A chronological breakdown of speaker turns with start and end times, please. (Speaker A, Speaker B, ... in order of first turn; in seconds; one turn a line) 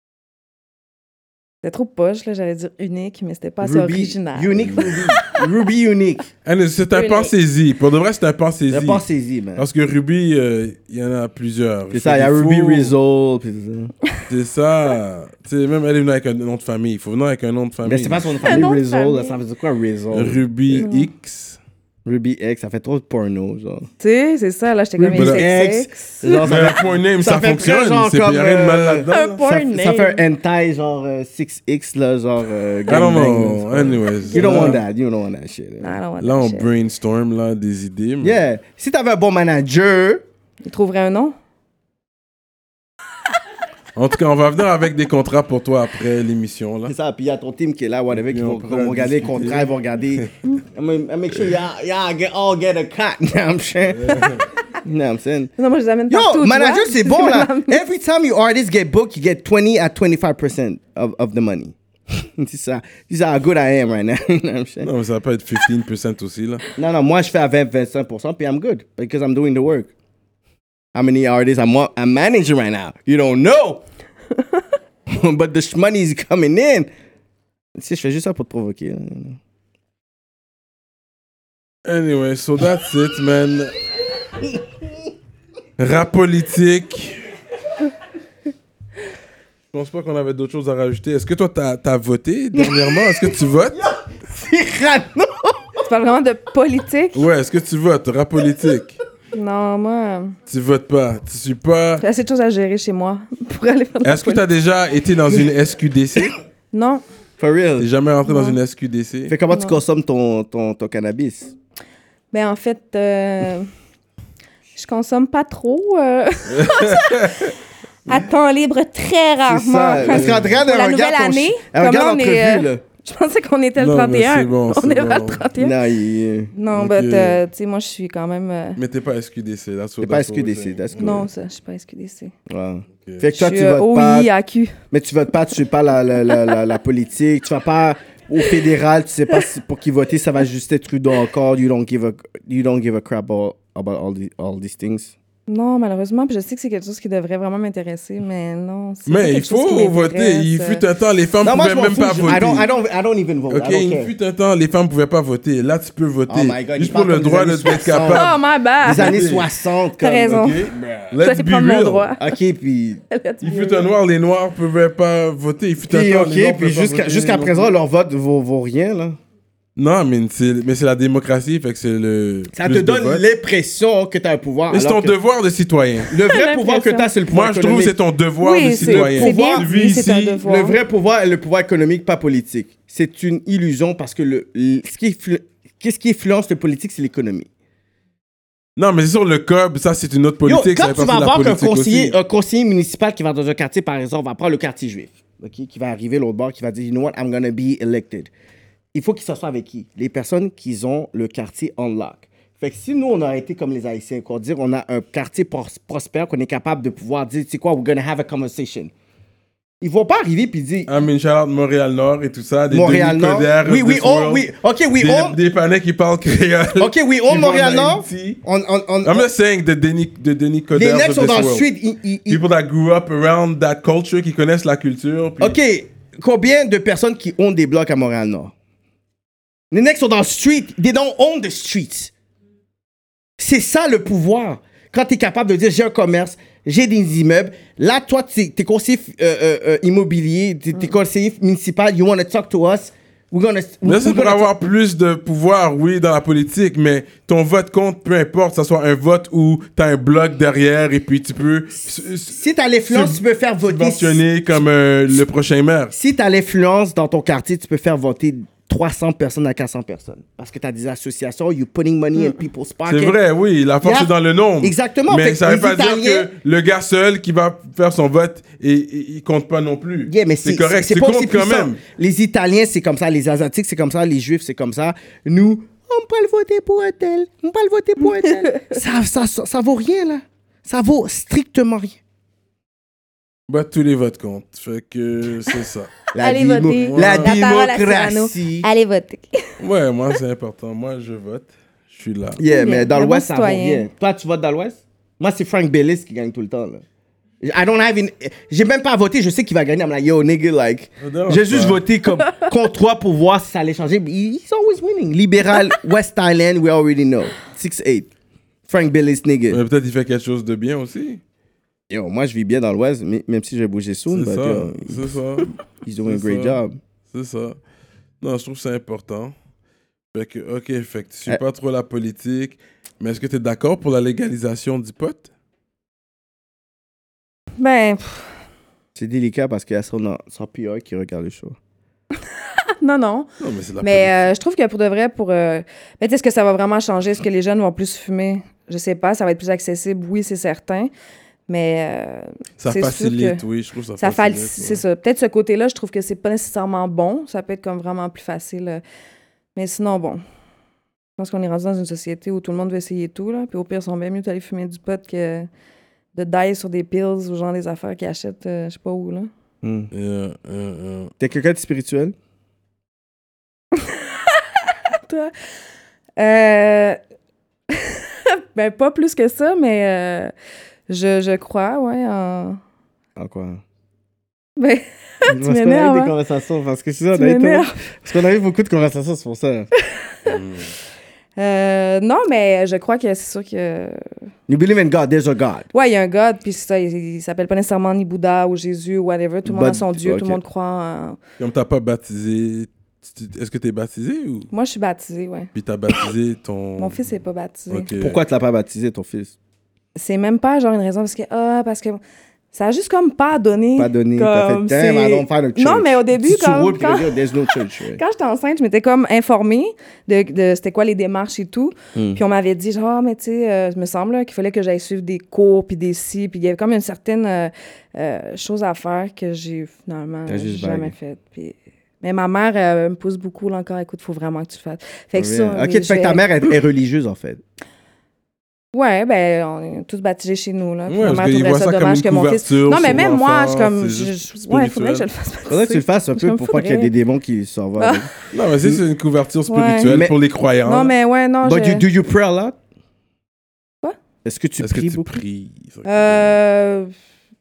Speaker A: 1.6-5.4
Speaker B: 3.6-6.3
Speaker C: 6.5-9.0
Speaker A: 6.9-7.3
Speaker B: 8.7-9.7
Speaker C: 9.6-12.9
Speaker B: 11.9-13.9
Speaker C: 14.3-18.6
Speaker B: 17.8-20.9
Speaker A: 18.4-19.4
Speaker C: 20.1-21.6
Speaker A: 20.8-21.1
Speaker B: 22.1-23.9
Speaker A: 24.0-26.5
Speaker C: 25.0-25.5
Speaker B: 25.1-36.0
Speaker C: 26.4-29.4
Speaker A: 29.1-30.2
Speaker C: 32.9-34.8
Speaker A: 34.3-34.8
Speaker A: 35.8-36.7
Speaker C: 36.2-38.4
Speaker B: 38.2-40.2
Speaker A: 40.6-41.4
Speaker C: 44.0-46.9
Speaker B: 46.9-55.5
Speaker C: 48.1-50.3
Speaker C: 54.0-54.5
Speaker A: 55.6-57.8
Speaker B: 56.1-64.9
Speaker C: 64.8-66.6
Speaker B: 66.8-69.9
Speaker B: 70.9-73.8
Speaker B: 75.1-76.9
Speaker B: 77.8-79.4
Speaker C: 81.8-83.8
Speaker C: 85.8-87.2
Speaker C: 89.7-93.8
Speaker B: 92.5-95.8
Speaker A: 95.8-97.3
Speaker C: 97.1-99.0
Speaker A: 99.3-100.4
Speaker C: 100.5-102.0
Speaker A: 102.0-104.4
Speaker C: 104.0-106.4
Speaker A: 106.7-107.0
Speaker B: 107.4-107.9
Speaker C: 107.8-109.3
Speaker A: 108.3-108.6
Speaker B: 109.3-111.5
Speaker A: 109.5-109.8
Speaker A: 112.3-113.7
Speaker A: 114.8-117.5
Speaker C: 116.5-117.5
Speaker A: 118.1-125.8
Speaker B: 119.5-122.8
Speaker C: 120.0-120.6
Speaker C: 123.8-125.5
Speaker B: 125.6-126.5
Speaker A: 126.5-128.8
Speaker C: 126.7-127.4
Speaker C: 128.8-131.3
Speaker B: 130.0-131.3
Speaker A: 131.0-132.3
Speaker B: 132.5-134.3
Speaker A: 133.3-134.8
Speaker B: 134.9-145.1
Speaker A: 145.5-150.8
Speaker C: 149.1-152.7
Speaker B: 151.4-154.1
Speaker C: 153.5-159.5
Speaker B: 156.3-158.3
Speaker A: 158.1-159.2
Speaker B: 158.8-161.1
Speaker A: 160.0-160.7
Speaker C: 160.3-162.1
Speaker A: 161.2-162.3
Speaker B: 162.2-163.0
Speaker A: 163.1-163.9
Speaker C: 163.4-167.7
Speaker B: 165.9-169.2
Speaker C: 169.8-173.2
Speaker B: 172.5-175.2
Speaker C: 174.7-176.1
Speaker B: 176.1-178.0
Speaker A: 176.3-177.1
Speaker C: 177.3-180.4
Speaker A: 178.4-180.8
Speaker B: 178.8-179.7
Speaker B: 180.4-187.5
Speaker C: 188.8-192.2
Speaker B: 190.4-198.3
Speaker B: 198.9-208.9
Speaker B: 209.8-210.9
Speaker C: 210.9-214.5
Speaker B: 212.7-215.4
Speaker C: 215.0-218.4
Speaker B: 216.8-219.3
Speaker C: 219.0-221.7
Speaker B: 220.7-222.4
Speaker C: 222.3-225.6
Speaker B: 225.4-228.5
Speaker B: 229.7-232.1
Speaker B: 233.4-244.5
Speaker C: 243.8-255.9
Speaker B: 252.3-254.6
Speaker B: 255.9-263.2
Speaker C: 262.9-271.8
Speaker B: 263.8-266.3
Speaker B: 270.1-282.0
Speaker A: 278.2-278.8
Speaker C: 283.5-285.9
Speaker B: 286.1-288.7
Speaker A: 286.2-289.4
Speaker C: 286.9-287.4
Speaker C: 289.6-292.4
Speaker B: 292.4-296.8
Speaker A: 292.5-293.9
Speaker B: 297.4-308.1
Speaker C: 301.0-301.8
Speaker A: 302.2-302.5
Speaker B: 308.7-309.6
Speaker C: 309.5-311.2
Speaker B: 311.9-315.2
Speaker C: 314.1-316.6
Speaker B: 315.9-316.8
Speaker C: 317.1-317.6
Speaker C: 318.2-319.3
Speaker C: 320.1-325.3
Speaker A: 327.6-328.3
Speaker B: 328.9-331.6
Speaker A: 332.8-333.3
Speaker C: 333.4-334.3
Speaker A: 333.8-340.9
Speaker A: 341.5-343.4
Speaker C: 342.6-344.8
Speaker A: 344.0-348.8
Speaker A: 349.6-350.2
Speaker A: 351.2-355.5
Speaker A: 356.1-359.3
Speaker B: 359.6-359.9
Speaker C: 359.9-361.1
Speaker B: 361.2-362.1
Speaker A: 363.8-364.4
Speaker A: 365.1-365.3
Speaker A: 366.2-367.0
Speaker A: 367.7-370.3
Speaker A: 370.9-372.6
Speaker B: 373.2-373.6
Speaker A: 374.6-376.1
Speaker B: 375.3-379.7
Speaker A: 377.1-377.8
Speaker A: 379.9-380.3
Speaker C: 380.3-380.7
Speaker A: 381.4-384.0
Speaker B: 384.5-385.7
Speaker A: 385.7-391.2
Speaker B: 389.4-390.4
Speaker C: 391.4-394.5
Speaker A: 394.5-395.5
Speaker C: 395.5-397.0
Speaker A: 396.8-397.9
Speaker C: 397.7-398.2
Speaker B: 398.0-399.3
Speaker A: 400.0-402.0
Speaker A: 402.5-407.1
Speaker B: 403.8-408.0
Speaker A: 407.9-426.2
Speaker B: 411.9-412.2
Speaker B: 420.3-420.9
Speaker B: 425.1-427.4
Speaker A: 428.7-436.9
Speaker C: 430.9-435.1
Speaker B: 435.5-438.1
Speaker A: 437.8-438.1
Speaker C: 438.3-440.9
Speaker A: 439.5-440.0
Speaker B: 439.9-440.2
Speaker A: 440.6-441.9
Speaker B: 441.4-442.6
Speaker B: 444.2-445.2
Speaker C: 444.6-446.4
Speaker A: 445.9-446.9